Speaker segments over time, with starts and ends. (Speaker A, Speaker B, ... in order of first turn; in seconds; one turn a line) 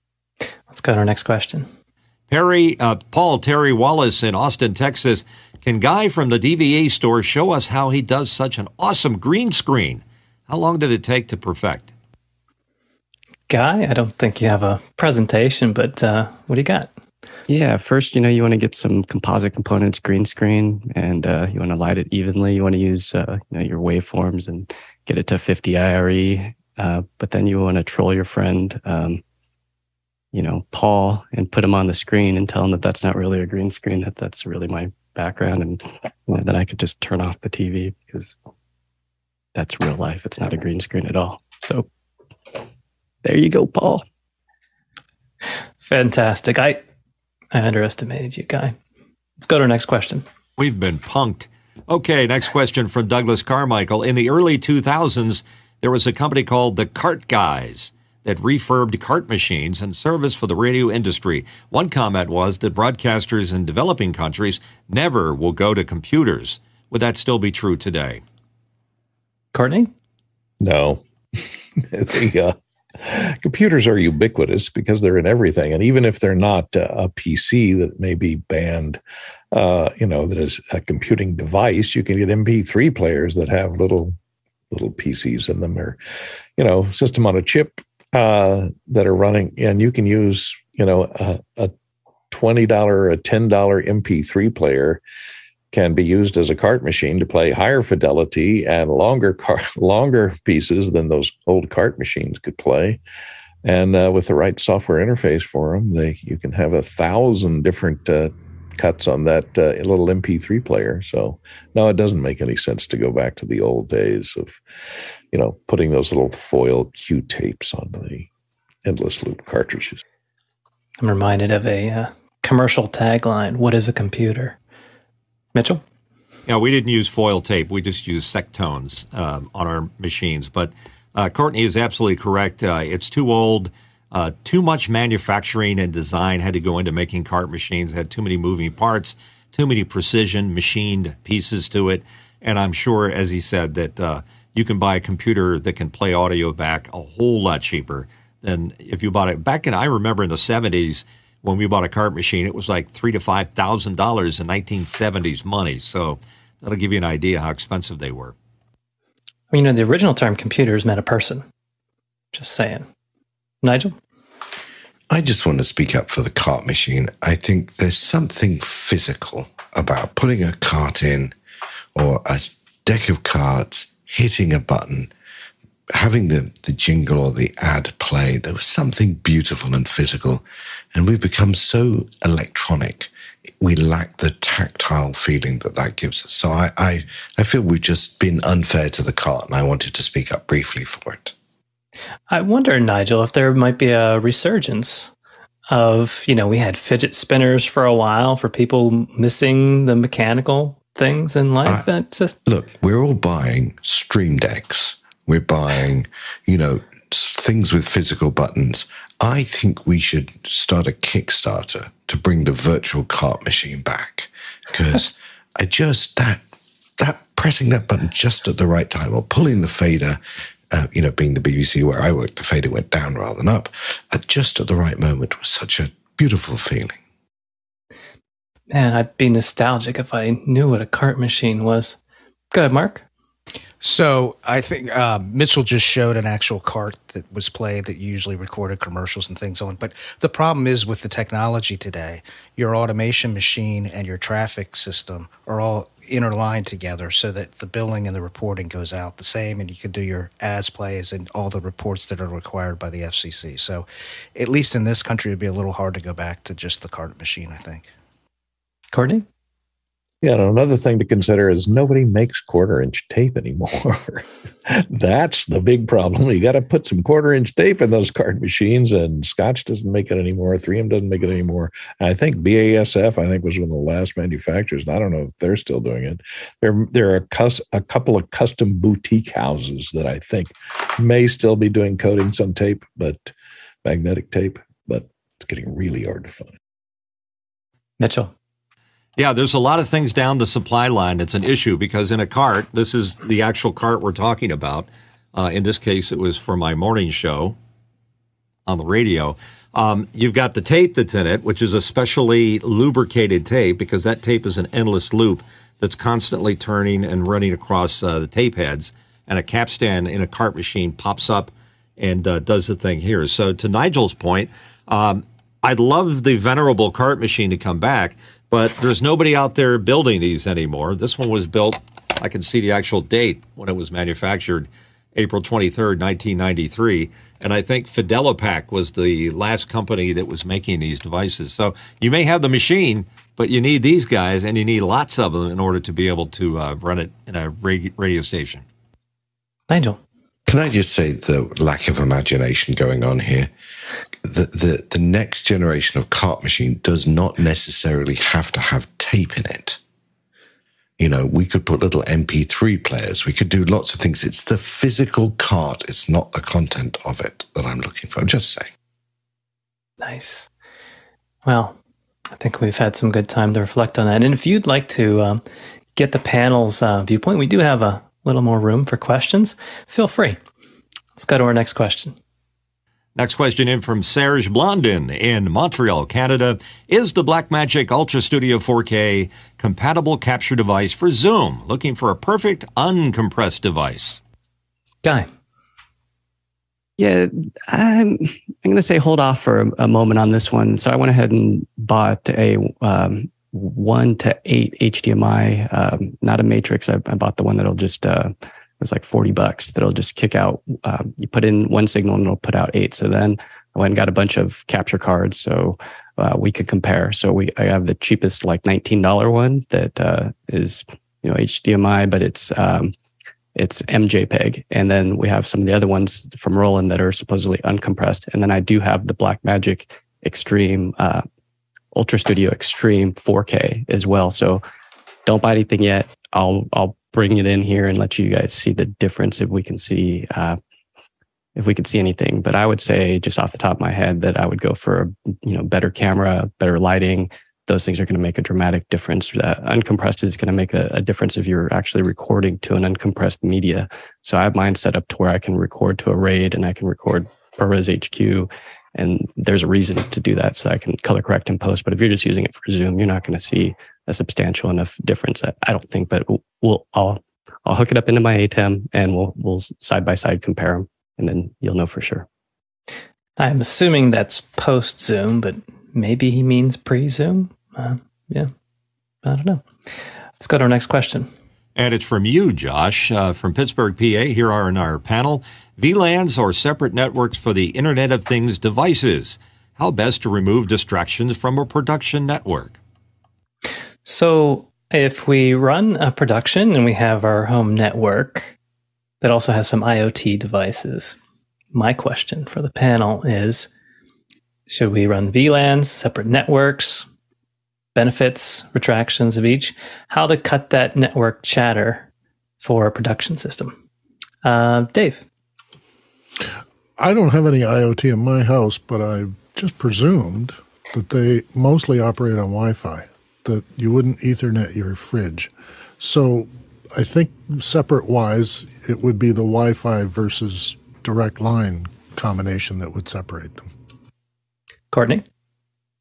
Speaker A: 0.7-1.7
Speaker B: 2.3-11.9
Speaker A: 13.5-16.9
Speaker C: 17.5-29.2
Speaker C: 30.3-38.4
Speaker C: 39.5-41.9
Speaker C: 43.2-44.0
Speaker A: 45.8-46.8
Speaker A: 47.5-48.7
Speaker A: 49.4-50.2
Speaker B: 50.6-68.2
Speaker A: 69.5-69.9
Speaker D: 70.6-79.0
Speaker D: 79.5-84.2
Speaker D: 84.7-86.0
Speaker D: 86.6-91.7
Speaker D: 92.3-95.0
Speaker D: 95.7-103.0
Speaker D: 103.6-114.6
Speaker D: 115.3-118.3
Speaker D: 118.8-120.0
Speaker A: 121.0-124.6
Speaker A: 125.5-125.8
Speaker B: 126.5-158.3
Speaker A: 159.5-161.4
Speaker A: 162.3-162.8
Speaker A: 163.6-163.9
Speaker E: 165.1-171.3
Speaker E: 171.9-175.1
Speaker E: 175.9-191.3
Speaker A: 192.3-195.1
Speaker A: 195.7-202.3
Speaker E: 202.4-216.4
Speaker E: 217.0-227.0
Speaker A: 228.7-232.0
Speaker A: 232.5-233.0
Speaker F: 233.8-257.9
Speaker A: 258.9-259.2
Speaker D: 260.2-283.3
Speaker D: 283.8-286.5
Speaker A: 288.0-288.3
Speaker B: 289.2-297.6
Speaker B: 298.7-338.6
Speaker A: 339.7-340.0
Speaker E: 340.5-343.5
Speaker E: 344.2-349.8
Speaker E: 351.0-358.7
Speaker A: 360.0-360.5
Speaker A: 361.4-361.7
Speaker A: 362.3-365.4
Speaker A: 365.9-370.4
Speaker A: 371.2-372.1
Speaker B: 373.1-384.2
Speaker C: 387.0-412.9
Speaker C: 413.6-421.2
Speaker C: 421.9-424.6
Speaker C: 425.2-430.6
Speaker C: 431.6-462.2
Speaker A: 463.4-468.5
Speaker A: 469.2-469.6
Speaker A: 470.4-471.3
Speaker B: 471.8-482.8
Speaker A: 484.0-488.5
Speaker A: 489.2-491.2
Speaker A: 491.7-493.7
Speaker A: 494.7-497.1
Speaker A: 497.9-502.1
Speaker A: 502.6-503.7
Speaker A: 504.4-505.2
Speaker G: 507.0-523.7
Speaker A: 524.9-525.2